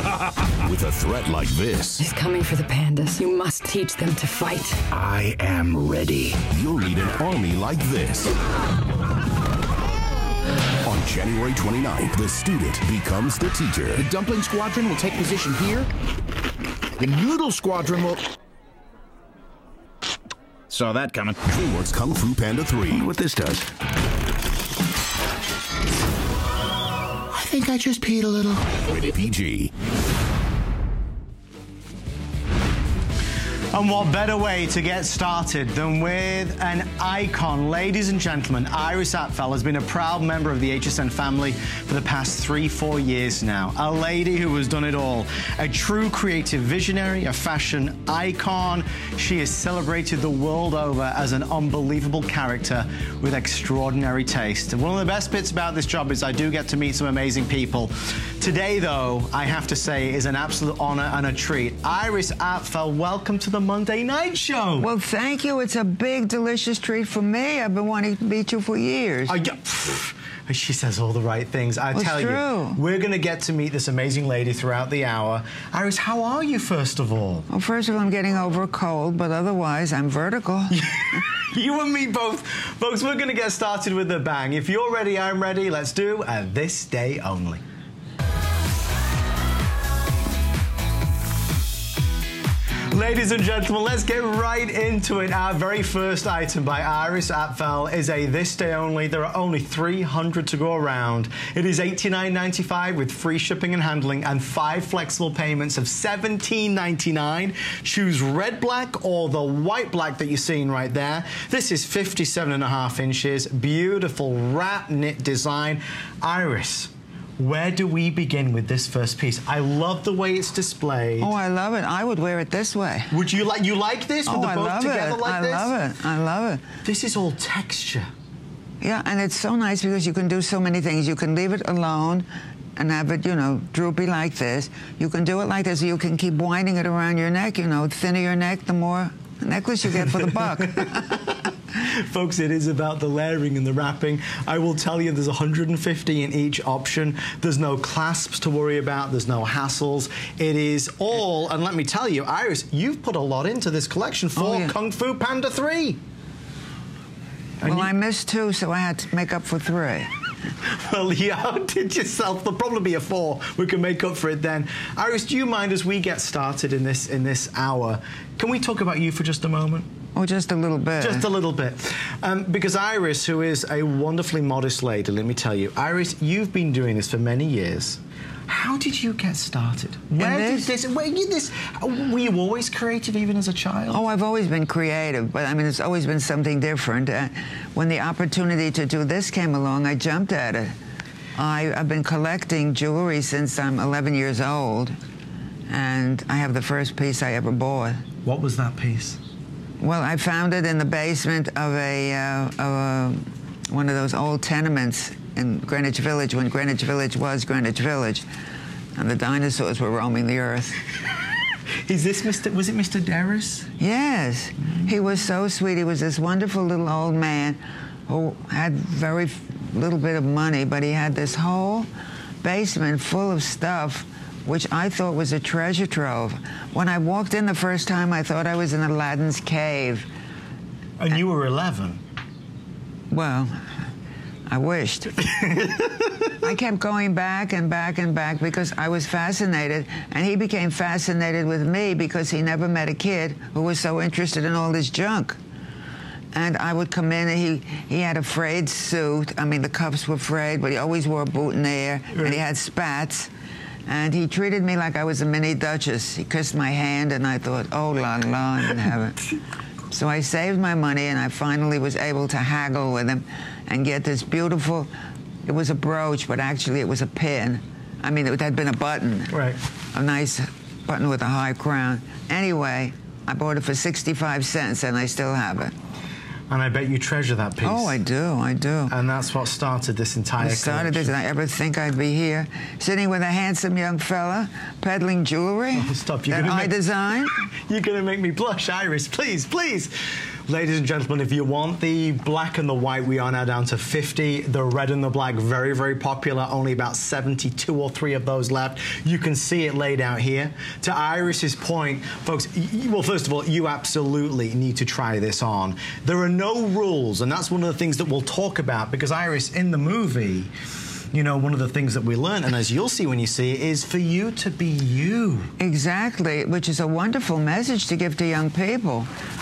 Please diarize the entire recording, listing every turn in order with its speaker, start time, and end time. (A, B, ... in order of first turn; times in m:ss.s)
0:00.6-0:02.0 A
0:02.0-0:04.8 B
0:04.9-0:06.4 C
0:06.4-0:08.3 A
0:10.8-0:14.0 A
0:14.0-0:15.9 C
0:17.0-0:18.2 C
0:20.7-0:21.4 C
0:21.4-0:23.6 A
0:23.0-0:23.6 C
0:27.3-0:28.7 D
0:28.8-0:29.7 A
0:33.7-1:04.9 D
1:04.8-1:09.4 E
1:09.3-1:17.5 D
1:11.9-1:12.8 E
1:17.5-1:20.8 E
1:20.7-1:27.6 D
1:32.9-2:01.4 D
2:01.2-2:03.2 E
2:03.1-2:05.7 D
2:04.3-2:06.6 E
2:06.8-2:08.1 D
2:08.8-2:21.2 E
2:20.0-2:36.0 D
2:34.4-2:34.7 E
2:37.6-2:37.9 D
2:37.6-2:40.1 E
2:40.6-2:49.9 D
2:50.2-2:51.3 E
2:51.0-3:04.0 D
3:00.2-3:00.7 E
3:03.9-3:10.8 E
3:11.4-3:15.0 E
3:15.7-3:18.0 E
3:18.2-3:19.2 D
3:19.8-3:28.2 E
3:29.0-3:30.8 E
3:31.8-3:33.7 D
3:33.8-3:41.9 E
3:42.4-3:50.1 E
3:51.0-3:52.0 D
3:53.1-3:53.6 E
3:54.5-3:55.2 E
3:55.2-3:56.3 D
3:56.4-4:05.4 E
4:06.3-4:13.3 E
4:12.1-4:12.4 D
4:13.9-4:19.2 E
4:19.9-4:24.9 E
4:25.4-4:29.3 E
4:29.3-4:29.6 D
4:29.9-4:35.7 E
4:36.5-4:38.0 D
4:37.6-4:38.9 E
4:38.9-4:41.1 D
4:40.4-4:47.4 E
4:45.7-4:46.8 D
4:47.7-4:49.9 D
4:50.5-5:10.5 D
5:11.1-5:15.5 D
5:15.6-5:19.1 E